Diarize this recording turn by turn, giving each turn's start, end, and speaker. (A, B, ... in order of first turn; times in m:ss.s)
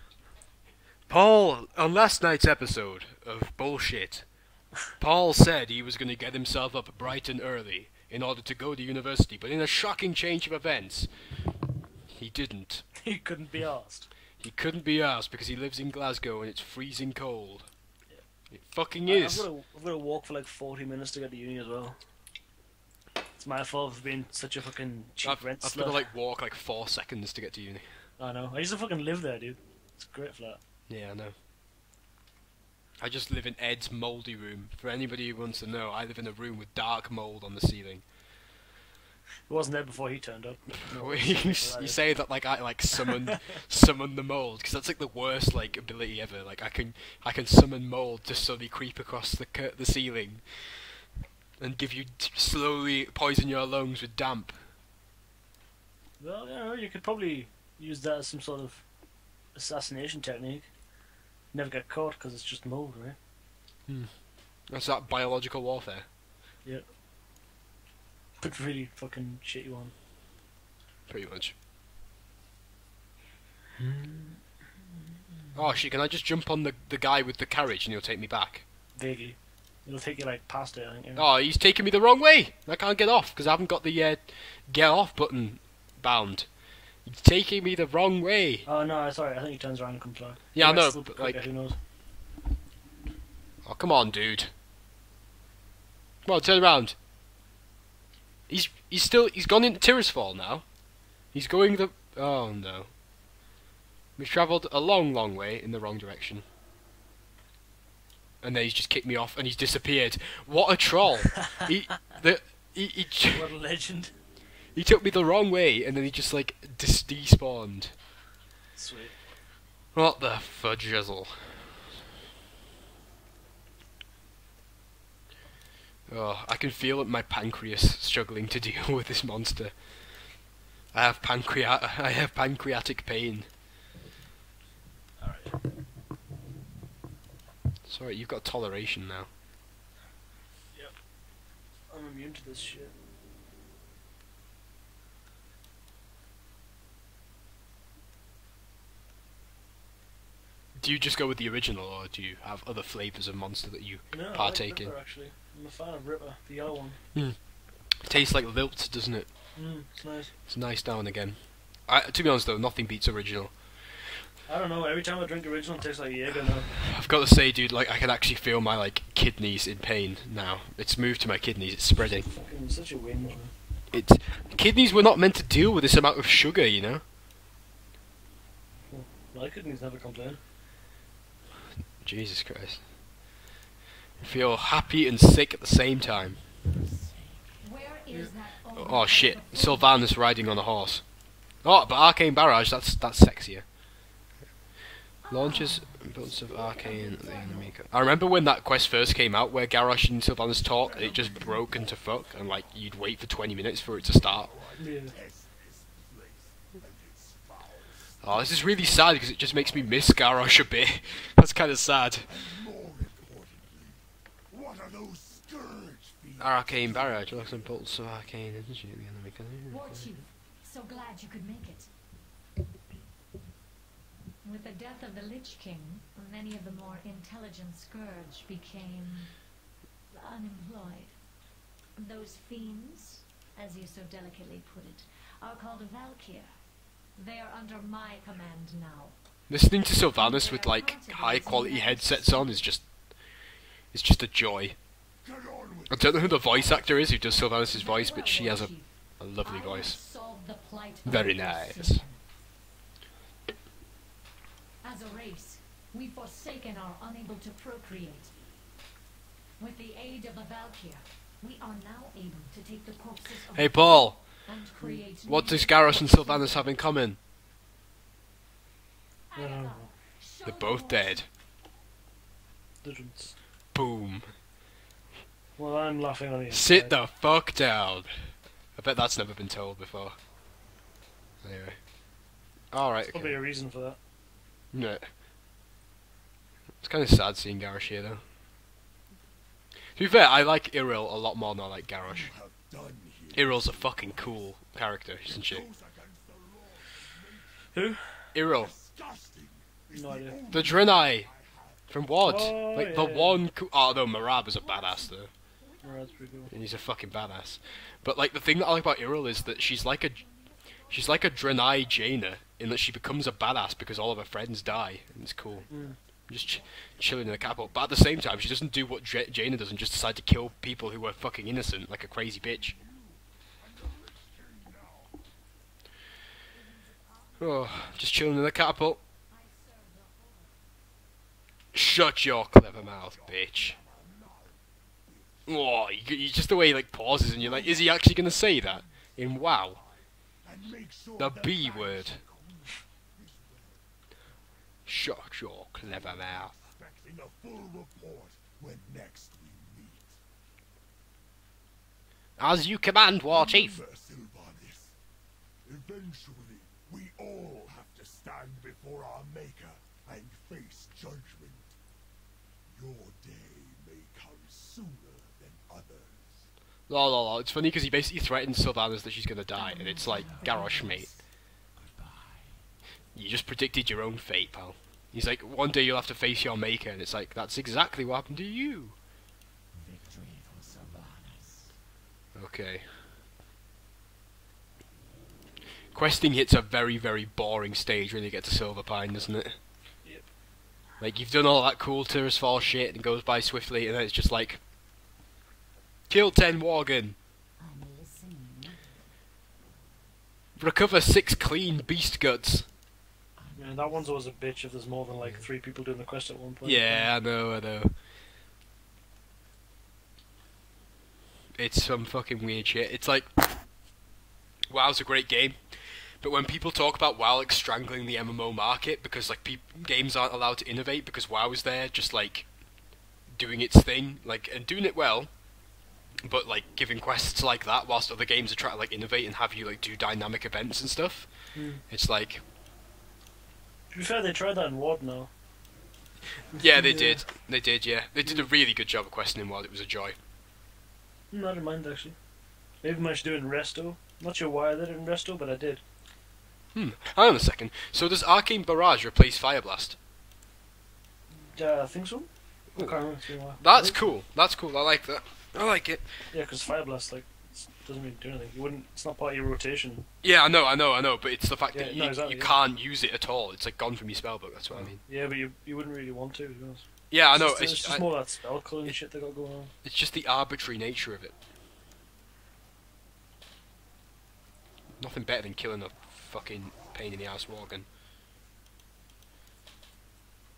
0:01.1-0:04.3 A
0:05.0-0:11.3 A
0:12.1-0:12.9 A
0:13.0-0:14.1 B
0:14.4-0:17.7 A
0:18.5-0:19.5 A
0:19.1-0:22.0 B
0:23.4-0:26.1 B
0:25.2-0:28.0 A
0:28.2-0:30.6 B
0:30.9-0:31.4 A
0:33.0-0:38.0 A
0:39.5-0:42.0 B
0:40.8-0:51.0 A
0:51.6-0:54.7 A
0:56.2-0:58.8 B
0:59.5-1:00.7 B
1:01.5-1:03.2 B
1:03.9-1:04.2 A
1:04.7-1:06.1 A
1:08.4-1:09.9 B
1:11.1-1:11.5 A
1:13.8-1:14.4 B
1:15.1-1:15.5 B
1:15.5-1:18.6 A
1:19.0-1:21.2 B
1:21.2-1:28.7 A
1:28.6-1:31.8 B
1:30.5-1:31.4 A
1:33.6-1:34.5 A
1:36.2-1:37.0 A
1:38.5-1:40.7 A
1:41.3-1:42.9 A
1:44.2-1:46.4 A
1:48.4-1:53.5 A
1:53.3-1:54.1 B
1:54.7-1:58.0 A
1:58.8-1:59.2 B
1:59.9-2:01.8 A
2:06.1-2:09.8 A
2:10.9-2:13.5 A
2:15.2-2:15.6 B
2:17.9-2:19.3 A
2:21.9-2:22.9 B
2:30.8-2:34.9 A
2:34.1-2:37.0 B
2:37.1-2:39.3 A
2:39.6-2:40.3 B
2:40.5-2:44.0 A
2:44.5-2:46.8 B
2:46.8-2:52.3 A
2:52.3-2:53.5 B
2:53.9-2:57.0 A
2:58.9-3:00.4 B
3:02.0-3:02.9 A
3:04.2-3:06.4 A
3:06.6-3:07.8 C
3:07.6-3:10.0 D
3:08.8-3:13.7 A
3:15.2-3:17.7 D
3:15.3-3:24.5 A
3:20.5-3:22.9 E
3:23.8-3:31.3 E
3:24.8-3:25.1 B
3:28.2-3:32.3 A
3:32.3-3:37.8 E
3:36.4-3:40.1 A
3:39.7-3:41.9 D
3:44.4-3:49.5 D
3:50.1-3:51.2 D
3:52.0-3:56.5 D
3:57.2-3:59.2 D
3:59.5-4:03.3 A
4:00.0-4:02.7 D
4:03.9-4:04.8 A
4:05.2-4:07.2 E
4:05.9-4:10.0 A
4:07.7-4:12.2 D
4:11.0-4:12.0 A
4:14.8-4:18.3 D
4:19.6-4:26.7 D
4:23.6-4:24.2 A
4:25.3-4:27.2 A
4:29.3-4:31.3 D
4:29.4-4:29.9 B
4:30.4-4:31.3 A
4:32.8-4:33.4 B
4:33.7-4:34.4 A
4:35.6-4:37.0 B
4:36.5-4:40.2 A
4:41.4-4:42.0 A
4:42.7-4:43.4 A
4:43.1-4:44.0 B
4:44.7-4:45.1 A
4:46.8-4:48.2 A
4:50.0-4:52.3 A
4:52.0-4:54.6 E
4:53.3-4:55.7 A
4:55.2-4:57.7 E
4:57.7-4:58.3 B
4:58.3-4:58.7 A
4:58.4-5:02.2 E
4:59.9-5:00.7 B
5:00.5-5:01.3 A
5:01.9-5:05.3 A
5:02.2-5:03.4 B
5:04.6-5:06.5 D
5:05.8-5:06.5 B
5:06.5-5:10.2 A
5:07.6-5:08.0 D
5:09.1-5:12.0 D
5:10.9-5:22.8 A
5:15.7-5:16.0 B
5:22.4-5:25.2 E
5:26.5-5:28.1 D
5:27.4-5:29.0 A
5:29.3-5:30.5 D
5:31.7-5:33.8 A
5:32.6-5:35.6 E
5:35.5-5:39.8 A
5:37.3-5:38.4 E
5:39.4-5:43.9 E
5:41.2-5:42.2 A
5:44.9-5:46.6 A
5:45.8-5:50.2 E
5:52.4-5:53.8 A
5:53.3-5:55.0 E
5:55.6-6:01.7 E
6:02.7-6:06.5 E
6:06.9-6:11.1 A
6:09.6-6:12.7 C
6:09.7-6:10.8 D
6:13.1-6:19.0 A
6:19.7-6:21.8 C
6:22.4-6:22.9 A
6:25.9-6:29.6 A
6:31.0-6:34.6 A
6:36.1-6:37.2 A
6:37.6-6:38.9 C
6:40.6-6:42.7 A
6:43.4-6:44.2 C
6:43.6-6:47.1 B
6:46.6-6:48.0 A
6:51.6-6:53.7 A
6:54.7-7:02.5 A
7:03.3-7:05.3 A
7:06.2-7:12.4 A
7:11.5-7:11.8 B
7:13.9-7:15.3 B
7:16.6-7:20.2 A
7:16.6-7:17.3 B
7:21.3-7:22.2 B
7:22.8-7:25.8 B
7:26.7-7:30.0 A
7:31.3-7:34.0 B
7:32.7-7:36.3 A
7:36.3-7:40.1 B
7:40.2-7:45.0 A
7:41.7-7:42.6 B
7:44.7-7:49.7 B
7:47.1-7:48.1 A
7:49.8-7:51.4 A
7:55.0-7:57.9 A